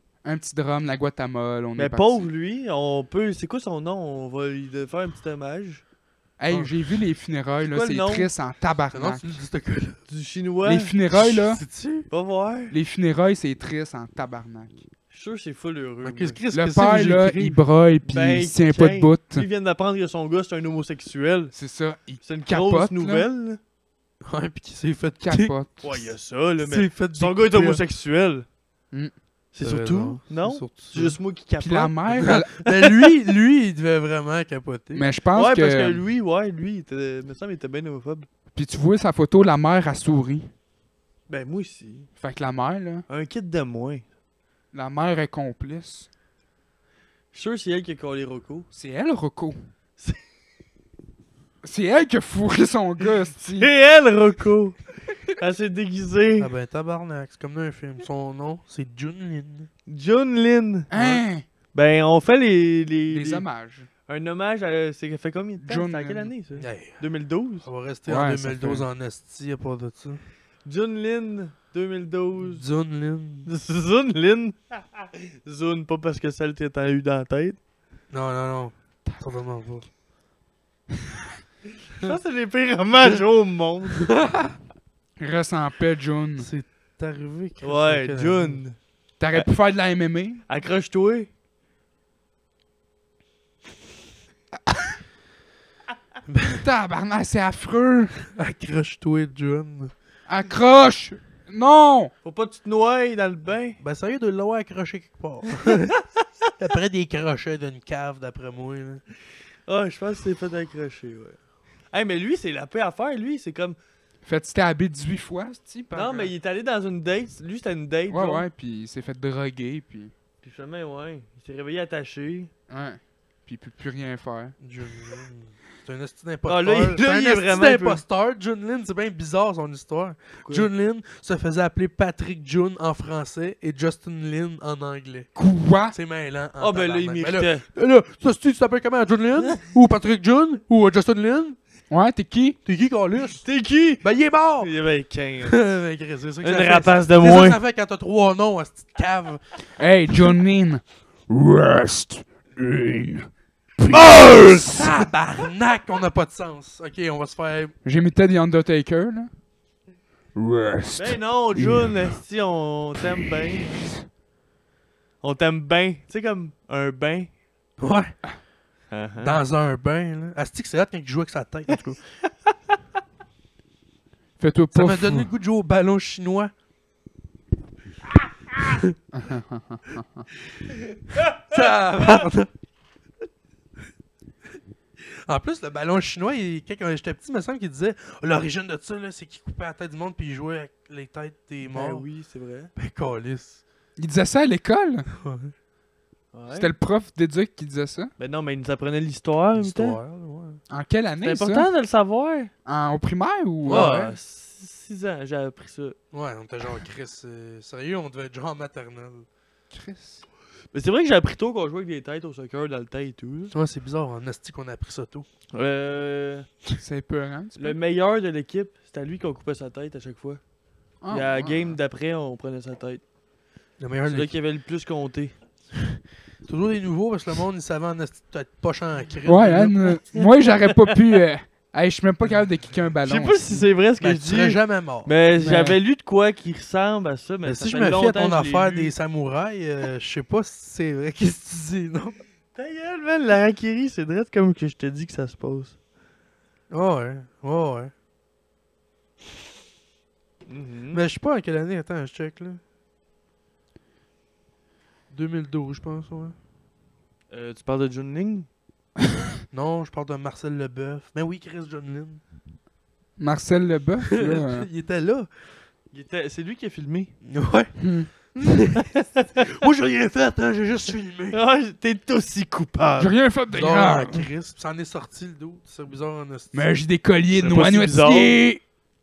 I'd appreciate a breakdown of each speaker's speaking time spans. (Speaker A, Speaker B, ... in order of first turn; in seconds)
Speaker A: 0.2-2.3, 6.4-9.2, 10.7-11.6, 12.7-14.9, 16.5-19.5, 21.5-23.3, 25.2-26.1, 31.6-32.5, 34.9-36.0, 38.5-40.5, 42.2-43.0, 44.7-46.1, 48.7-49.7, 51.6-53.7, 60.9-61.5, 63.1-63.9, 65.6-66.3, 68.1-68.9, 85.2-86.5, 89.2-90.4, 96.6-98.1, 100.3-102.1, 114.2-116.3, 118.1-120.1, 122.7-124.5, 135.4-135.9, 141.9-142.6, 149.8-153.3, 153.8-155.1, 157.8-159.3, 160.3-162.2, 174.4-175.3, 179.1-180.3, 194.0-195.1, 196.5-198.1, 200.7-201.7, 202.7-204.2, 209.7-210.2, 216.8-217.8, 221.0-221.7, 229.3-233.7, 235.4-235.8, 263.2-264.7, 267.8-268.1, 273.0-274.3, 276.5-278.6
Speaker B: 1.8-5.8, 7.6-8.3, 10.1-10.9, 12.1-12.8, 15.1-16.4, 18.1-21.5, 22.2-23.6, 25.8-28.5, 29.5-33.0, 35.3-38.3, 41.3-42.1, 43.1-44.0, 47.3-48.7, 53.4-54.8, 55.4-56.5, 59.9-61.2, 61.7-63.5, 64.1-67.7, 70.7-72.7, 73.5-77.6, 82.0-84.1, 87.6-88.8, 90.5-91.3, 102.2-103.8, 109.7-111.4, 111.9-113.8, 115.9-118.5, 120.4-122.5, 126.5-128.0, 130.4-130.7, 136.6-137.7, 143.4-144.0, 144.6-145.6, 146.4-147.6, 161.0-163.8, 165.2-167.3, 168.9-169.4, 191.6-192.7, 196.3-196.7, 198.2-200.0, 201.2-202.5, 203.7-206.0, 210.7-213.5, 215.5-216.5, 217.6-220.4, 221.1-223.0, 224.1-225.4, 230.1-230.9, 233.0-238.9, 242.5-245.8, 250.5-251.0, 257.3-258.5, 265.9-267.1, 268.7-269.5, 271.3-273.1, 277.3-278.4
Speaker C: 6.5-6.8, 8.9-10.0, 11.1-12.1, 16.0-17.6, 24.2-25.5, 26.6-27.8, 29.6-31.2, 32.1-35.1, 56.4-59.7, 66.6-67.0, 67.6-70.2, 72.5-73.5, 78.1-79.9, 86.4-88.6, 96.3-96.7, 98.2-99.9, 103.8-106.0, 106.6-109.0, 124.6-135.4, 135.9-141.6, 142.7-143.5, 144.0-144.7, 145.4-149.7, 153.9-157.7, 167.8-168.2, 169.2-172.0, 174.7-176.5, 181.4-182.5, 185.1-192.0, 192.8-193.6, 195.1-195.5, 199.6-200.6, 203.7-204.1, 206.1-209.3, 213.5-215.3, 223.8-224.3, 225.8-229.9, 234.0-235.1, 237.4-242.2, 246.7-247.9, 250.9-252.6, 255.1-256.4, 259.5-262.2, 264.1-265.3, 267.2-268.9, 269.4-271.4, 273.5-276.7